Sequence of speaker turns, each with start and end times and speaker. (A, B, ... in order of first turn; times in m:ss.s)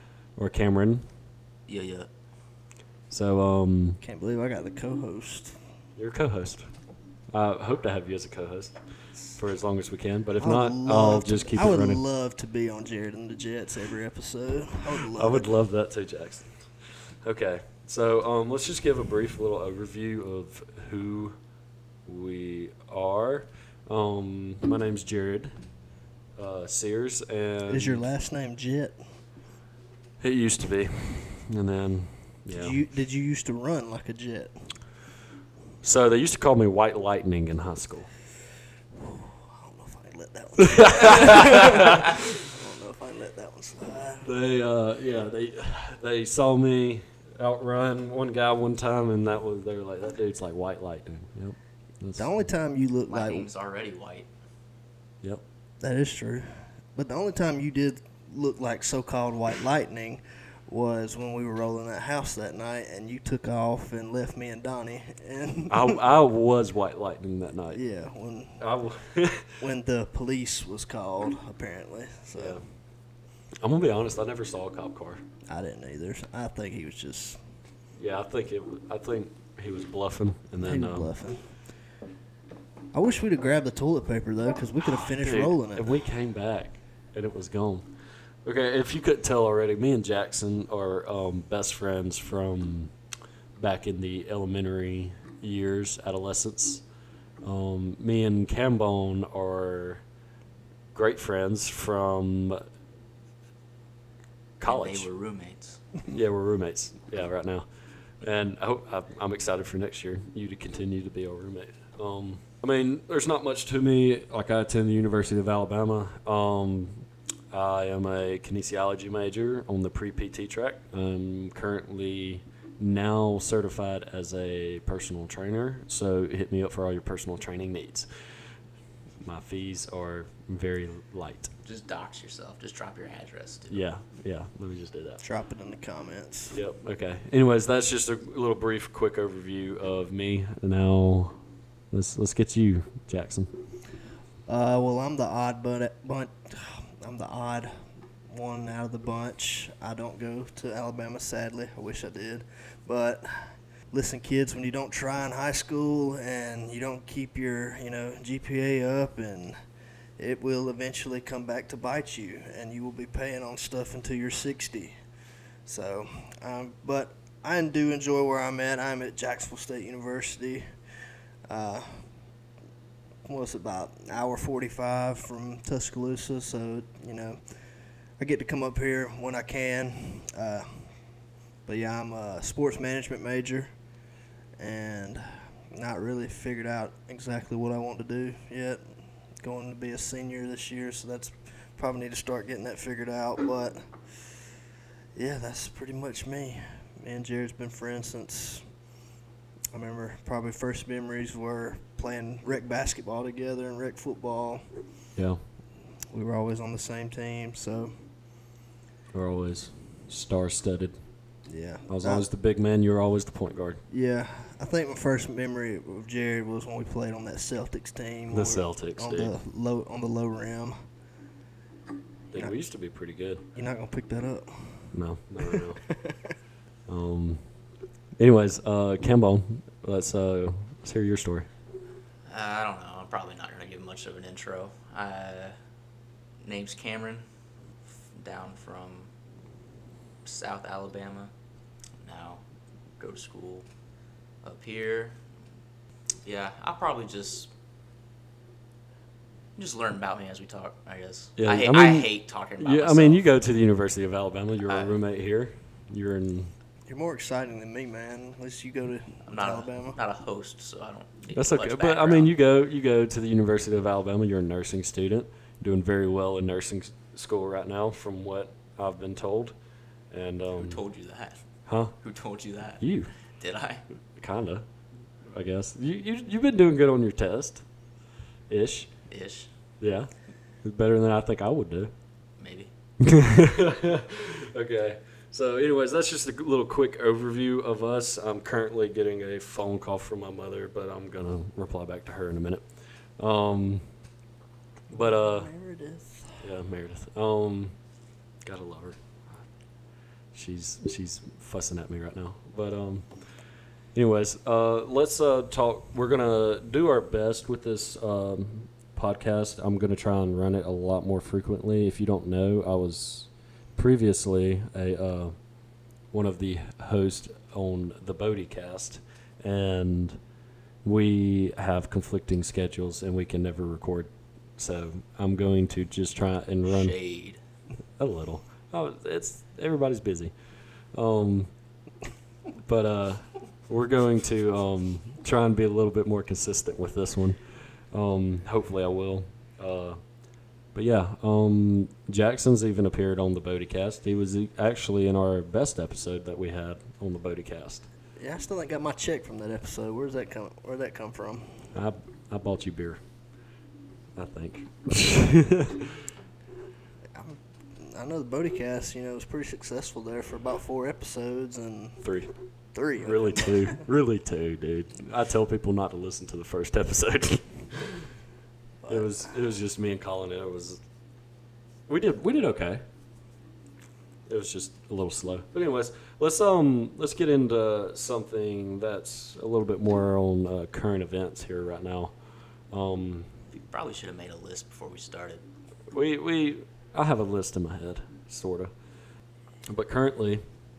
0:00.4-0:01.1 A
0:01.7-0:02.1 B
0:03.1-0:04.0 A
0:04.0-0:05.5 C
0:06.0-0:06.7 A
0:07.3-0:08.7 A
0:09.4-0:12.0 A
0:10.4-0:15.5 C
0:15.0-0:21.4 A
0:22.0-0:25.5 A
0:26.4-0:28.1 A
0:27.7-0:29.0 C
0:30.2-0:32.8 A
0:32.5-0:34.7 C
0:35.8-0:38.1 A
0:39.0-0:44.3 C
0:40.6-0:42.3 A
0:44.2-0:52.3 A
0:52.2-0:53.5 C
0:53.1-0:54.3 B
0:55.8-1:06.0 C
1:05.7-1:07.8 A
1:07.7-1:08.6 C
1:08.6-1:09.6 A
1:09.6-1:12.6 C
1:12.3-1:12.6 A
1:13.6-1:15.2 A
1:15.5-1:17.4 C
1:18.0-1:21.1 A
1:20.6-1:21.5 C
1:22.9-1:26.0 C
1:25.0-1:27.9 A
1:28.4-1:32.9 A
1:33.6-1:36.8 A
1:37.4-1:40.0 A
1:40.9-1:42.6 A
1:44.6-1:45.1 A
1:44.6-1:45.8 B
1:46.1-1:47.7 A
1:48.2-2:08.1 A
2:09.2-2:11.5 A
2:11.6-2:13.9 B
2:13.7-2:15.2 A
2:15.2-2:16.6 C
2:16.5-2:21.4 A
2:21.9-2:23.5 A
2:24.5-2:27.7 C
2:28.3-2:39.6 C
2:40.2-2:45.0 C
2:45.6-2:50.7 C
2:51.5-2:52.0 C
2:53.2-2:57.4 C
2:58.2-3:00.8 C
3:01.7-3:03.7 C
3:04.6-3:08.8 C
3:09.4-3:13.9 C
3:15.1-3:18.6 C
3:19.7-3:24.6 C
3:25.2-3:25.4 A
3:26.1-3:27.9 C
3:29.1-3:31.0 A
3:31.5-3:32.2 C
3:31.9-3:33.8 A
3:33.9-3:40.8 C
3:38.3-3:39.3 A
3:42.3-3:43.5 A
3:43.5-3:44.9 C
3:44.9-3:45.8 A
3:45.4-3:46.3 C
3:46.9-3:47.4 A
3:48.2-3:51.5 A
3:52.2-3:55.5 B
3:56.4-3:57.2 B
3:58.1-3:59.1 B
4:00.2-4:01.3 B
4:02.0-4:02.4 B
4:03.0-4:03.6 B
4:04.4-4:05.2 B
4:06.2-4:07.5 B
4:09.6-4:13.3 B
4:11.4-4:16.5 A
4:14.6-4:15.0 B
4:16.9-4:20.0 C
4:19.3-4:22.3 B
4:21.3-4:29.5 A
4:30.1-4:30.8 A
4:30.6-4:31.4 B
4:31.7-4:31.9 A
4:32.0-4:32.8 B
4:32.8-4:33.1 A
4:33.3-4:33.8 B
4:34.2-4:34.7 A
4:35.2-4:37.6 A
4:38.5-4:38.9 A
4:39.1-4:39.5 B
4:39.8-4:40.1 A
4:40.6-4:41.9 A
4:42.4-4:42.7 B
4:43.0-4:52.6 A
4:53.2-4:53.8 A
4:54.9-4:55.5 A
4:54.9-4:56.4 C
4:56.4-4:57.7 A
4:58.4-4:59.0 A
5:00.3-5:03.1 A
5:03.9-5:15.4 A
5:16.1-5:20.2 A
5:20.8-5:27.0 A
5:26.6-5:27.4 B
5:28.0-5:30.3 A
5:30.9-5:31.5 A
5:32.6-5:37.4 A
5:37.9-5:40.0 A
5:40.7-5:47.9 A
5:48.2-5:51.7 C
5:51.7-5:53.0 A
5:54.1-5:56.1 A
5:57.1-6:02.0 C
6:02.0-6:02.3 A
6:02.7-6:03.8 C
6:02.9-6:08.1 A
6:08.8-6:09.3 C
6:08.9-6:10.8 A
6:11.9-6:12.8 A
6:14.3-6:22.1 A
6:22.7-6:23.3 A
6:23.5-6:25.4 B
6:25.9-6:28.7 A
6:29.7-6:30.4 A